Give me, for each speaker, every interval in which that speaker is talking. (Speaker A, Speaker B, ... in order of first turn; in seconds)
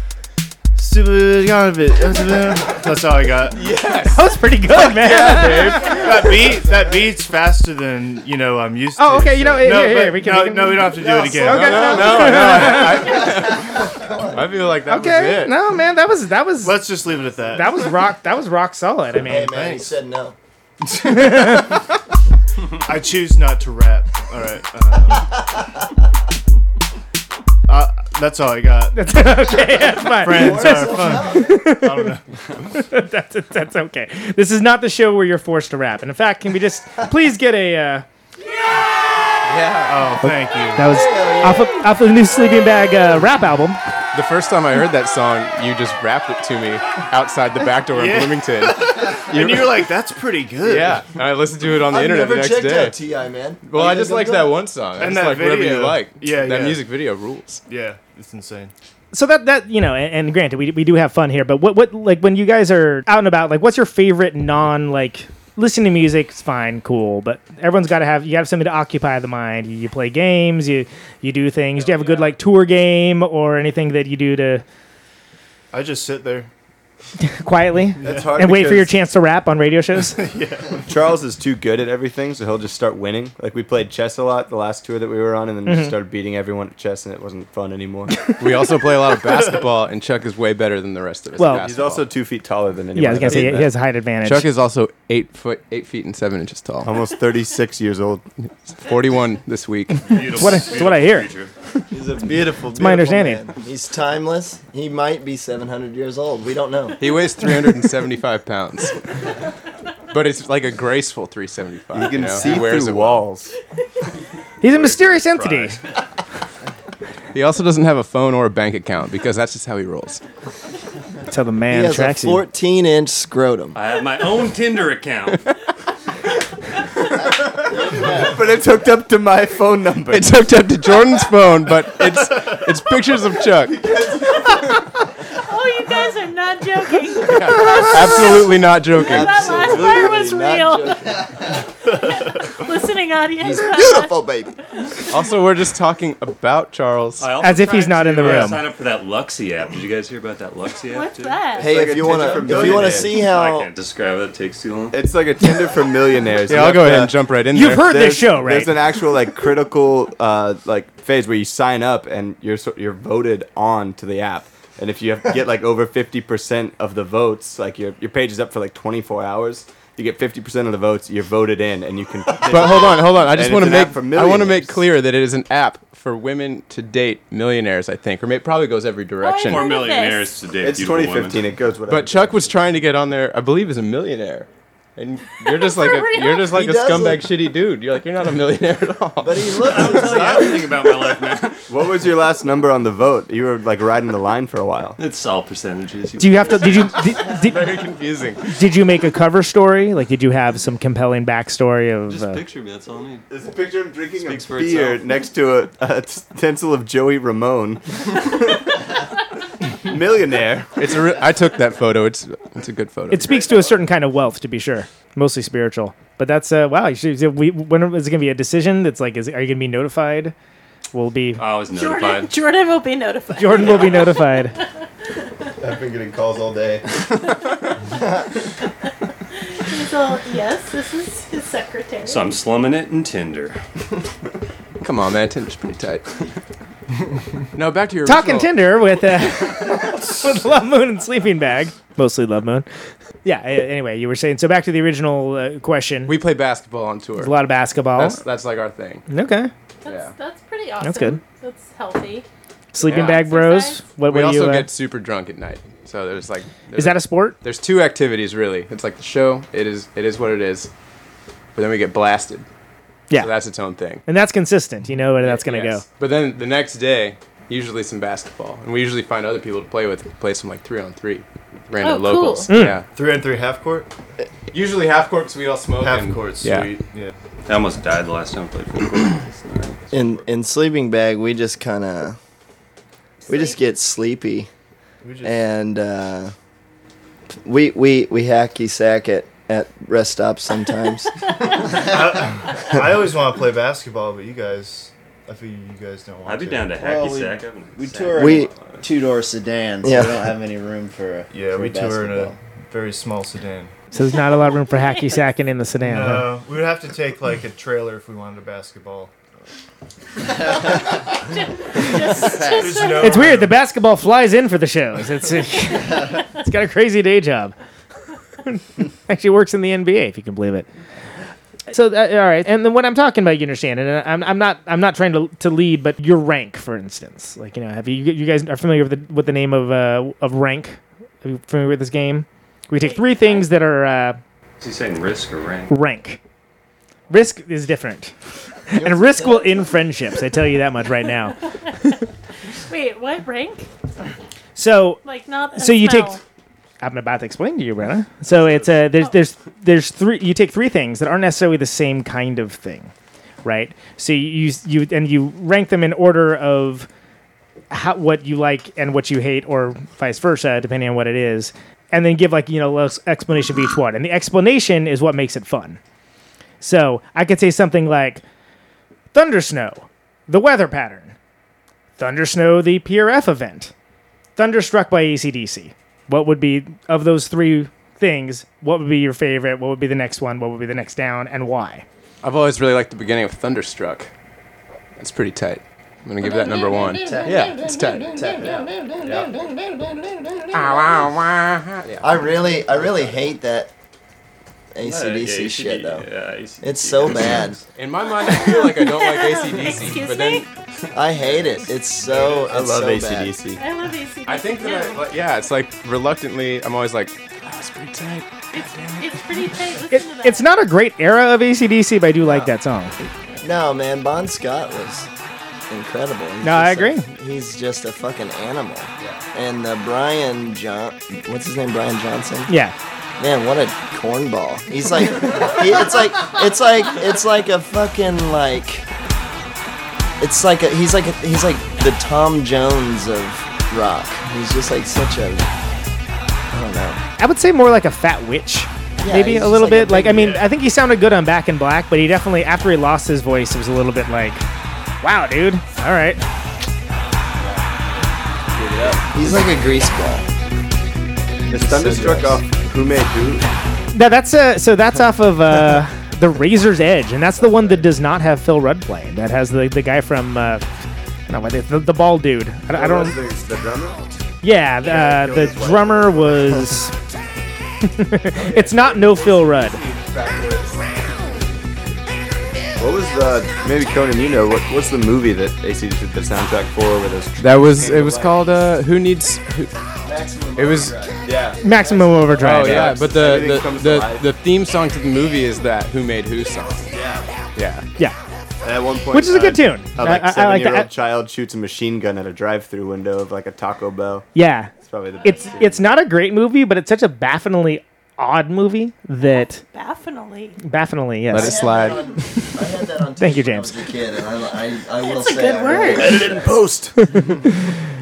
Speaker A: 0.7-3.8, 5.5-13.2, 15.2-15.5, 16.6-17.9, 19.3-19.9, 20.9-21.7, 22.8-25.4, 27.7-32.2, 39.9-40.9, 47.9-51.1, 55.0-57.0, 57.6-58.7, 75.7-76.5, 78.0-78.4, 80.1-80.8, 272.9-273.9, 275.8-277.1, 285.0-285.4, 291.7-296.8, 301.3-303.7, 305.8-309.1, 312.1-313.6
Speaker B: 3.5-6.4, 11.0-15.5, 39.4-40.0, 44.1-49.9, 50.6-53.0, 53.7-57.6, 71.9-72.3, 88.4-92.1, 93.2-93.6, 94.2-96.9, 98.7-100.6, 107.0-109.0, 110.1-113.3, 117.3-120.2, 130.1-133.9, 137.2-139.7, 145.1-147.3, 156.5-158.0, 172.4-179.6, 181.9-189.9, 197.1-198.6, 210.8-213.4, 234.8-236.3, 237.6-238.5, 246.1-249.1, 249.8-250.1, 252.8-253.2, 254.1-260.7, 261.6-262.4, 263.1-264.0, 265.2-272.9, 274.5-276.8, 382.2-384.1, 385.0-388.4, 390.5-392.2, 397.8-400.5, 404.2-409.6, 477.4-479.7, 480.6-481.0, 482.4-486.9, 487.6-487.9, 501.3-502.0
Speaker C: 4.1-6.2, 9.0-13.2, 14.8-16.9, 17.5-19.5, 21.1-21.6, 28.9-32.2, 32.7-38.0, 40.2-43.8, 59.1-74.6, 77.2-80.2, 85.6-85.9, 91.4-91.6, 92.9-94.5, 100.1-101.3, 102.7-103.5, 114.6-115.8, 121.3-122.4, 147.4-148.6, 157.5-158.7, 196.2-197.6, 198.5-202.4, 213.1-220.3, 220.9-221.4, 223.4-224.5, 238.1-242.7, 243.2-246.1, 247.2-248.2, 249.1-249.5, 250.8-251.2, 252.7-254.7, 256.7-257.4, 264.1-265.8, 272.5-272.8, 303.9-306.3, 313.0-317.6, 318.4-320.7, 321.7-334.2, 335.7-336.2, 337.1-338.1, 338.7-341.4, 344.6-345.0, 345.6-346.2, 346.8-352.9, 353.4-356.9, 357.7-365.8, 366.6-368.2, 369.1-371.1, 372.0-373.7, 374.4-381.8, 409.9-412.9, 416.4-417.1, 422.5-422.7, 437.2-444.4, 445.0-446.2, 453.9-460.6, 461.3-463.2, 464.4-466.9, 468.0-469.8, 481.6-482.9, 489.1-490.9, 494.3-499.6, 500.6-501.7, 503.2-503.8, 507.1-507.4
Speaker D: 13.9-14.2, 19.1-20.4, 30.2-31.6, 40.8-41.9, 51.9-54.6, 101.9-107.0, 121.7-123.8, 127.7-128.4, 139.0-141.2, 143.4-144.5, 151.6-153.7, 186.5-187.2, 189.2-190.7, 279.9-282.2, 283.3-284.5, 285.2-286.3, 287.4-291.1, 298.1-298.5, 299.8-300.2, 338.7-339.7, 392.0-393.7, 394.7-396.1, 396.6-397.6, 400.9-403.3, 413.4-415.1, 415.7-422.5, 423.2-428.9, 430.2-435.5, 436.5-437.0, 439.0-440.4, 449.1-450.2, 451.5-452.4, 480.0-482.3, 501.3-506.6
Speaker E: 78.0-78.9, 80.9-88.3, 91.5-93.7, 96.8-98.2, 111.9-113.5, 128.0-130.3, 151.6-153.2, 154.9-174.8, 180.6-182.6, 191.7-195.0, 203.3-208.6, 209.9-211.0, 225.6-227.0, 402.0-403.6, 451.5-453.5, 457.4-457.8, 462.7-464.1, 464.8-466.5, 468.7-470.7, 472.8-478.4, 481.2-481.9, 482.6-484.3, 486.9-487.2, 488.6-495.8, 506.0-506.9
Speaker F: 100.0-101.5, 114.9-115.8, 123.7-125.4, 147.2-155.0, 179.4-181.5, 189.6-192.1, 195.0-197.8, 202.1-203.2, 204.2-205.1, 221.4-222.4, 232.1-233.6, 277.4-280.2, 296.2-298.8, 334.6-335.7, 387.1-387.6, 394.8-397.6
Speaker G: 135.3-138.5, 139.0-141.1, 141.9-144.4, 150.9-151.7, 179.2-180.4, 185.4-186.5, 221.7-225.3, 229.5-232.4, 249.8-252.3, 252.8-253.8, 271.8-272.5, 283.3-283.6, 304.1-305.3, 311.4-313.2, 332.8-333.4, 342.6-343.7, 345.0-346.2, 398.2-400.4, 403.6-405.0, 408.5-410.5, 495.2-495.6, 499.2-500.6, 505.0-506.2
Speaker H: 296.8-302.4